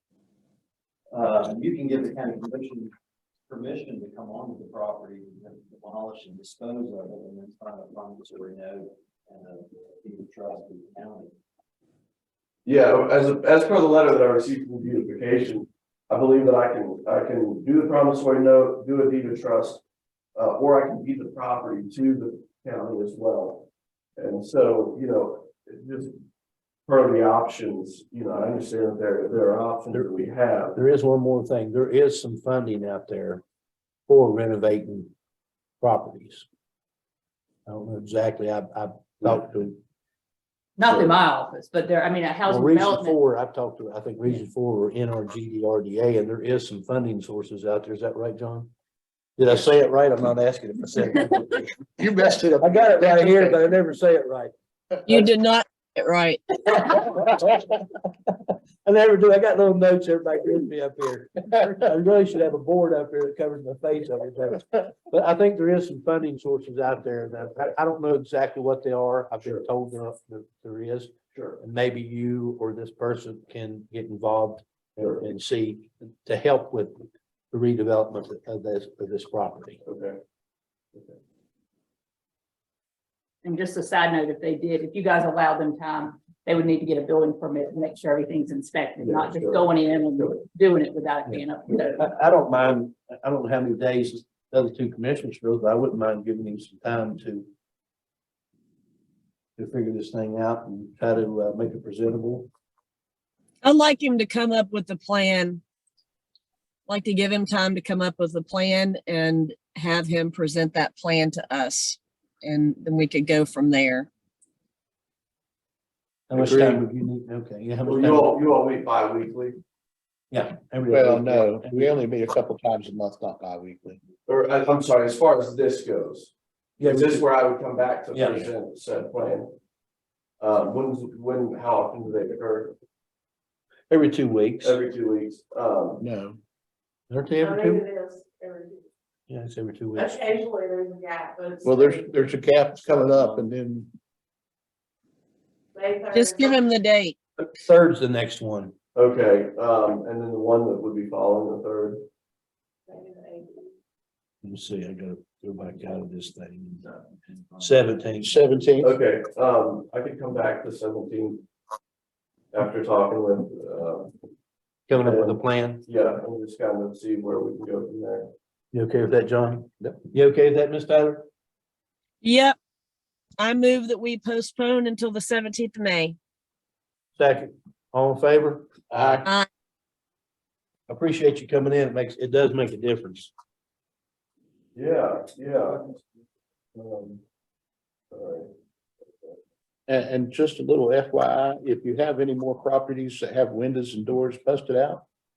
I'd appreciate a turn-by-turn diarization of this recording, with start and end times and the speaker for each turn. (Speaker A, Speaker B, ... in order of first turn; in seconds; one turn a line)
Speaker A: 1.1-2.9
Speaker A: 3.5-11.3
Speaker B: 12.6-19.8
Speaker B: 20.3-26.1
Speaker B: 26.9-30.8
Speaker C: 30.8-33.4
Speaker C: 34.1-35.1
Speaker C: 35.8-36.4
Speaker C: 37.7-39.8
Speaker D: 40.8-43.2
Speaker C: 42.5-48.7
Speaker C: 49.4-51.5
Speaker A: 50.9-51.2
Speaker E: 52.0-53.7
Speaker C: 52.5-54.5
Speaker A: 52.7-53.6
Speaker F: 55.1-56.4
Speaker C: 58.8-79.8
Speaker B: 71.3-71.6
Speaker B: 75.0-75.2
Speaker B: 79.8-80.2
Speaker D: 83.4-92.1
Speaker B: 89.0-90.4
Speaker C: 91.3-97.5
Speaker C: 99.6-102.5
Speaker F: 103.6-105.6
Speaker F: 106.9-114.1
Speaker B: 116.3-116.8
Speaker C: 116.3-118.2
Speaker A: 116.4-116.8
Speaker B: 117.8-119.6
Speaker C: 120.3-121.9
Speaker E: 120.9-124.0
Speaker B: 124.2-129.5
Speaker C: 126.8-127.2
Speaker B: 130.4-132.7
Speaker C: 133.9-134.7
Speaker B: 134.6-136.0
Speaker E: 136.0-136.4
Speaker C: 137.1-137.8
Speaker G: 137.4-138.8
Speaker C: 139.3-140.2
Speaker G: 139.9-142.1
Speaker E: 141.6-143.9
Speaker G: 145.7-146.7
Speaker F: 146.1-147.2
Speaker C: 147.5-148.7
Speaker B: 148.9-152.0
Speaker G: 152.9-153.7
Speaker C: 154.4-157.0
Speaker C: 157.6-158.2
Speaker E: 158.2-158.9
Speaker B: 158.8-161.4
Speaker B: 162.5-164.1
Speaker C: 164.9-165.8
Speaker B: 164.9-168.3
Speaker C: 168.7-171.2
Speaker F: 172.2-172.6
Speaker F: 173.4-176.2
Speaker C: 177.2-177.5
Speaker A: 177.9-178.5
Speaker C: 178.2-179.2
Speaker C: 180.9-183.3
Speaker A: 181.1-181.6
Speaker A: 182.4-183.0
Speaker B: 184.7-186.0
Speaker B: 186.7-187.2
Speaker B: 188.1-188.5
Speaker E: 189.9-195.0